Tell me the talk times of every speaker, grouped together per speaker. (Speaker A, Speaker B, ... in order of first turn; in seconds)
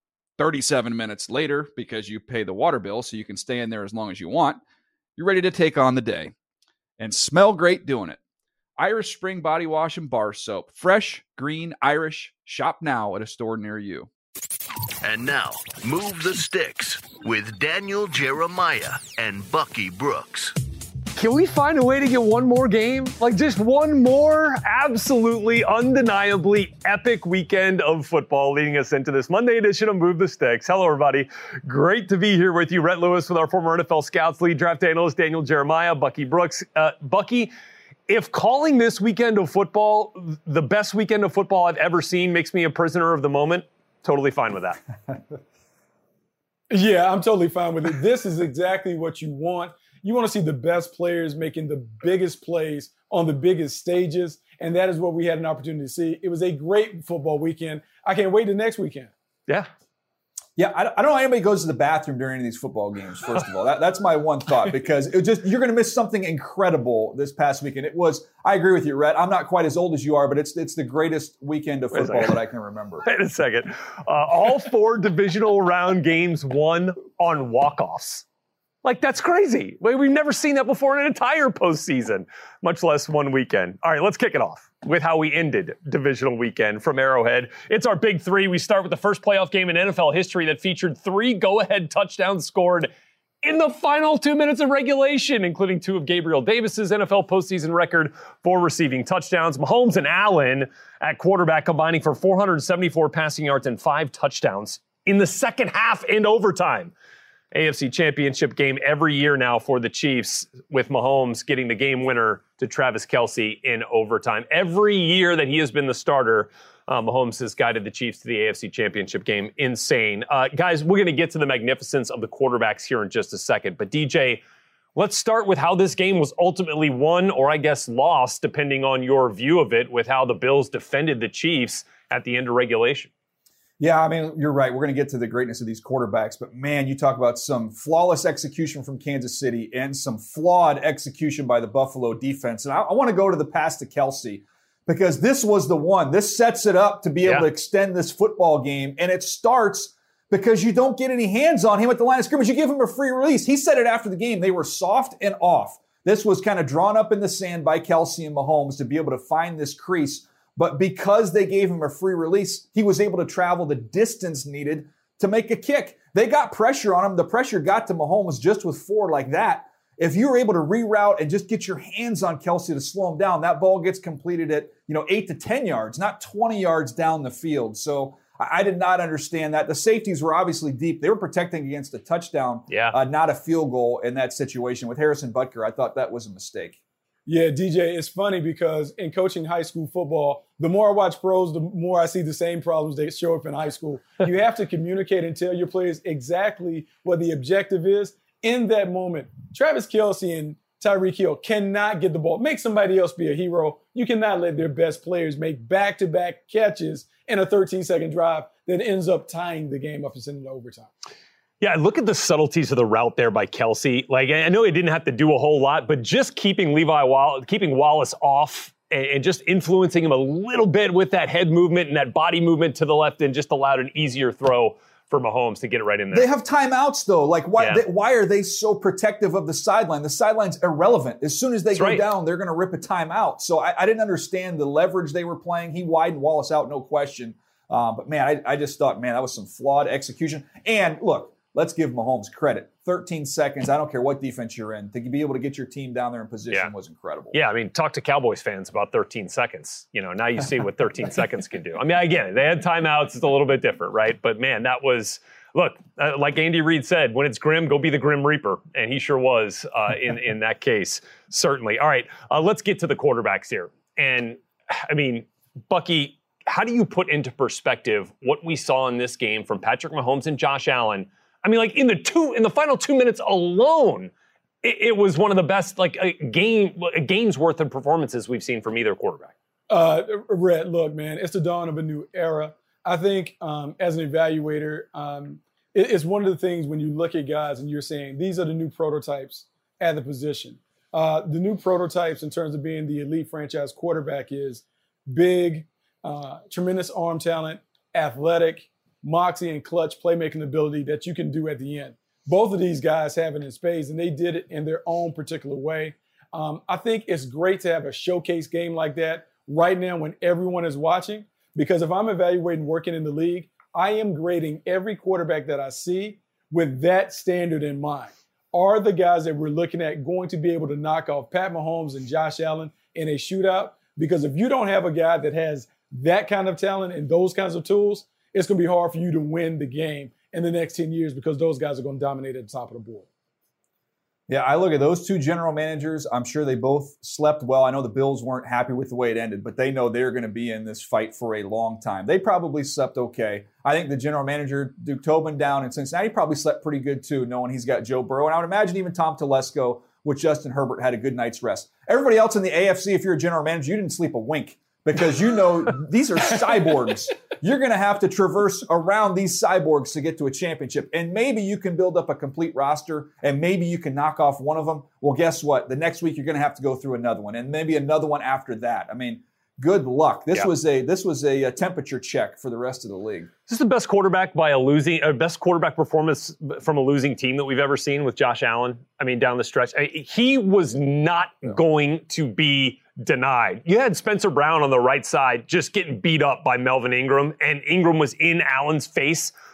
Speaker A: 0.4-4.6, 5.2-6.3, 7.0-8.2, 8.8-14.1
Speaker B: 15.0-20.5
Speaker C: 21.1-37.5, 38.1-44.8, 71.9-72.4, 73.0-78.2, 78.8-92.9, 93.4-106.9, 107.5-124.4, 125.0-133.1, 182.7-182.9, 211.6-226.3, 231.8-232.0, 247.3-274.1, 274.6-279.3, 373.5-389.3
Speaker D: 46.7-59.1, 187.2-210.9, 279.7-333.1
Speaker E: 60.5-73.0, 133.8-186.8, 226.1-247.3, 334.3-373.3